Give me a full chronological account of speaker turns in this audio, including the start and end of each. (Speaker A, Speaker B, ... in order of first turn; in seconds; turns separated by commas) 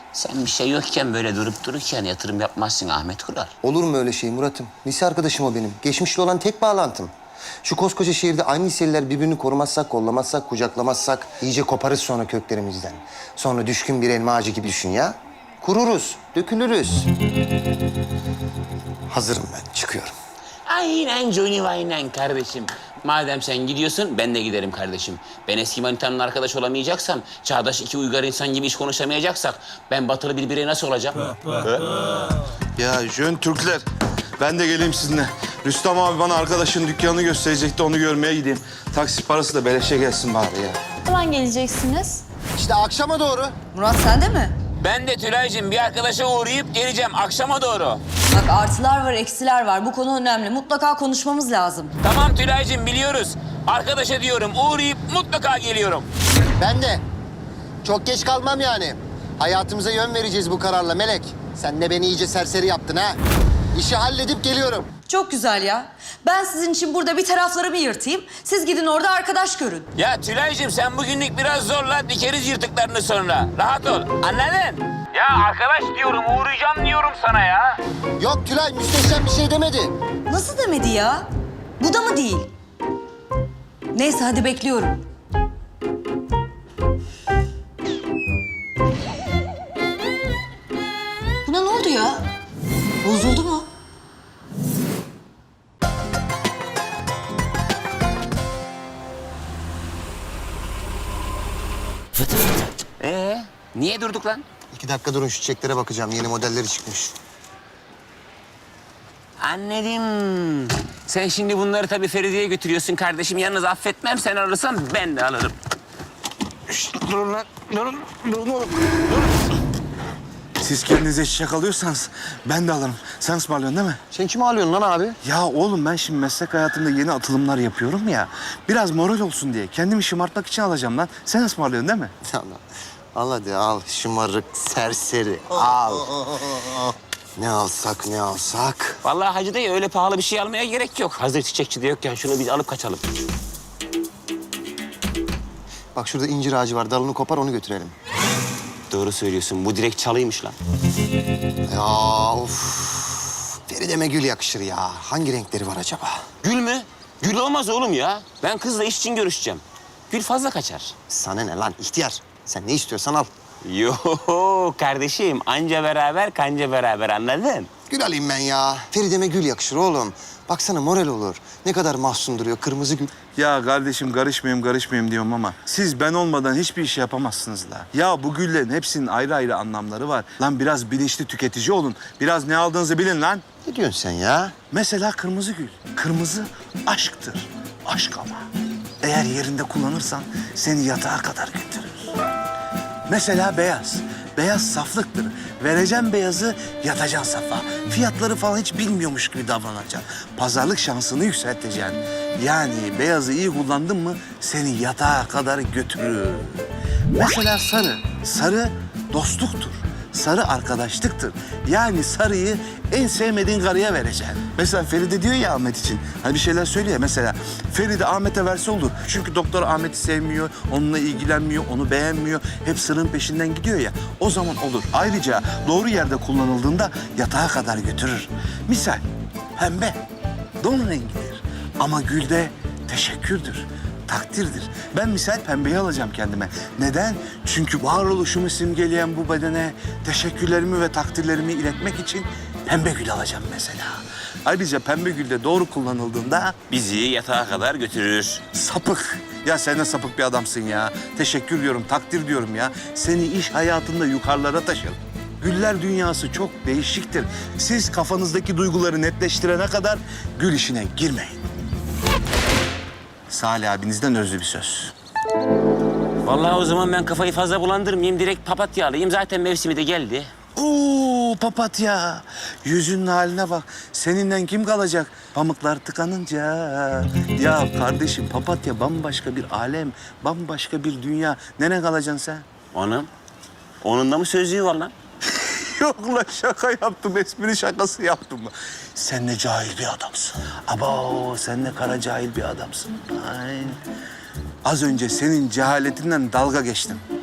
Speaker A: 0.1-3.5, Speaker B: 3.6-7.1, Speaker B: 7.6-17.1, Speaker B: 19.1-20.1, Speaker A: 20.6-31.8, Speaker C: 32.8-33.8, Speaker C: 34.4-40.8, Speaker D: 41.0-42.2, Speaker B: 42.5-43.5, Speaker D: 43.7-44.6, Speaker A: 44.8-48.0, Speaker D: 48.3-51.9, Speaker A: 52.0-56.1, Speaker B: 56.6-57.0, Speaker B: 57.8-63.2, Speaker B: 63.7-64.9, Speaker D: 65.1-69.9, Speaker A: 70.0-77.8, Speaker B: 78.2-79.9, Speaker D: 80.3-82.5, Speaker D: 83.9-85.0, Speaker D: 91.5-92.3, Speaker D: 93.0-93.7, Speaker A: 103.0-104.4, Speaker B: 104.7-107.1, Speaker A: 109.4-115.5, Speaker B: 116.8-118.3, Speaker C: 120.6-124.0, Speaker B: 124.1-125.2, Speaker C: 125.2-132.1, Speaker B: 132.2-132.6, Speaker B: 133.1-136.8, Speaker B: 137.4-139.0, Speaker A: 139.0-143.1, Speaker B: 145.9-147.9, Speaker A: 148.9-150.6, Speaker B: 151.7-156.2, Speaker A: 156.4-160.9, Speaker B: 161.1-163.3, Speaker A: 163.6-167.7, Speaker B: 167.9-173.1, Speaker C: 173.3-183.4, Speaker B: 183.6-184.5, Speaker C: 184.7-188.5, Speaker C: 189.0-192.1, Speaker C: 193.1-229.0, Speaker C: 229.6-230.0, Speaker C: 230.6-246.5, Speaker A: 246.7-248.4, Speaker C: 248.5-261.4, Speaker C: 263.3-264.9, Speaker A: 266.2-270.3, Speaker C: 270.6-282.4, Speaker A: 282.7-283.1, Speaker A: 283.8-284.9, Speaker C: 285.3-293.8, Speaker C: 294.6-297.0